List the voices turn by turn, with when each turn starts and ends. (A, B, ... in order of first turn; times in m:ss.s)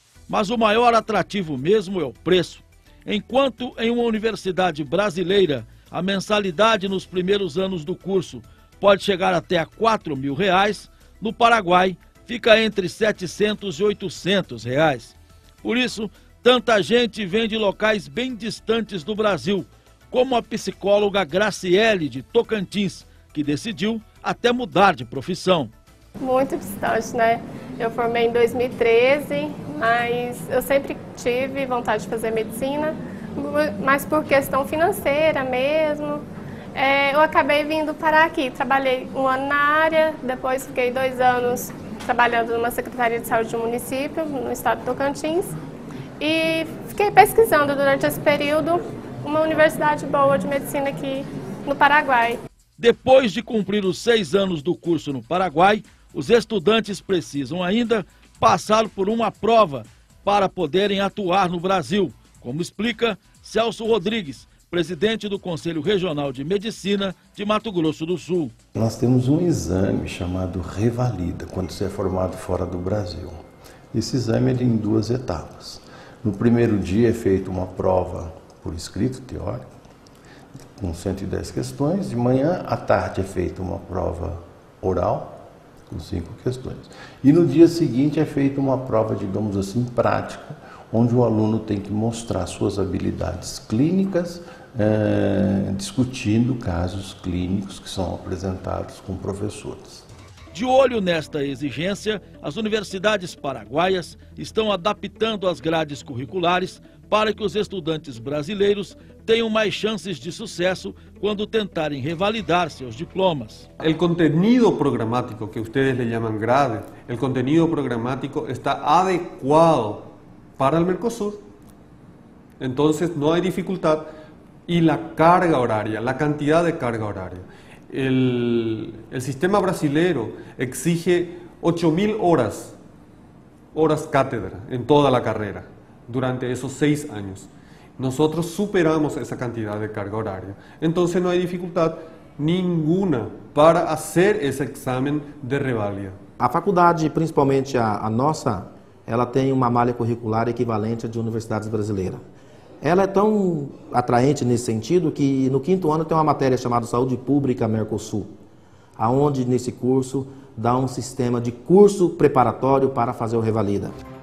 0:00.3-0:25.7 A
0:26.2-0:36.2 B
0:36.7-0:45.5 B
0:46.2-0:52.4 B
0:52.8-1:08.5 A
1:08.7-1:13.4 C
1:13.9-1:19.7 C
1:20.8-1:25.4 C
1:25.9-1:40.0 C
1:40.5-1:53.7 A
1:53.8-2:01.4 D
2:02.6-2:04.0 D
2:04.7-2:12.7 D
2:13.7-2:26.1 D
2:26.4-2:32.2 E
2:32.8-2:38.3 E
2:39.0-2:43.9 E